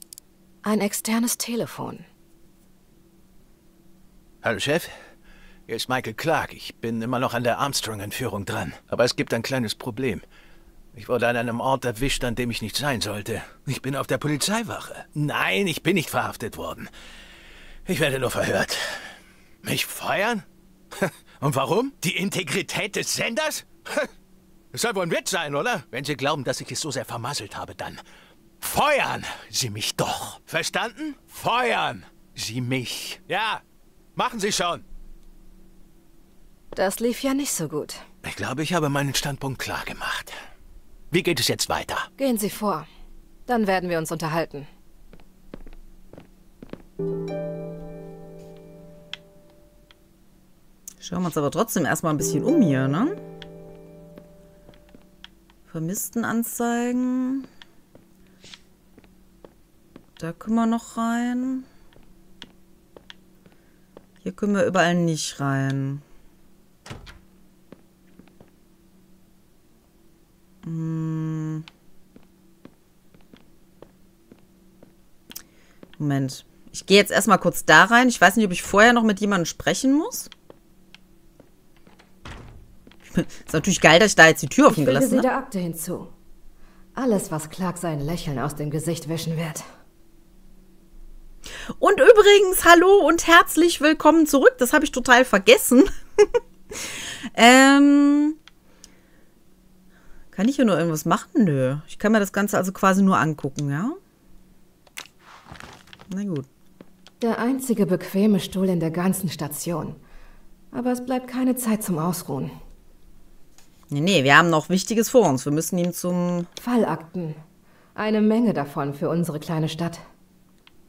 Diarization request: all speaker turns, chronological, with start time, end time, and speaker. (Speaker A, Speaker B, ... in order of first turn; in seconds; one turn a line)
Speaker A: 0.6-2.0
Speaker B: 4.4-4.9
Speaker B: 5.7-10.2
Speaker B: 10.9-16.9
Speaker B: 17.9-19.1
Speaker B: 19.6-20.4
Speaker B: 21.0-24.1
Speaker B: 24.7-28.0
Speaker B: 28.6-33.6
Speaker B: 34.1-34.8
Speaker A: 36.8-38.0
Speaker B: 38.2-40.3
Speaker B: 41.1-42.1
Speaker A: 42.2-42.9
Speaker A: 43.5-44.7
Speaker C: 51.0-53.2
Speaker C: 55.7-57.5
Speaker C: 60.2-61.7
Speaker C: 64.2-66.0
Speaker C: 70.6-71.7
Speaker C: 76.0-80.3
Speaker C: 83.1-85.3
Speaker A: 84.7-86.1
Speaker A: 87.0-89.6
Speaker C: 91.8-98.4
Speaker C: 100.3-104.0
Speaker C: 106.1-106.5
Speaker A: 107.2-110.0
Speaker A: 110.7-112.5
Speaker C: 113.9-116.5
Speaker A: 116.6-117.4
Speaker A: 117.9-120.0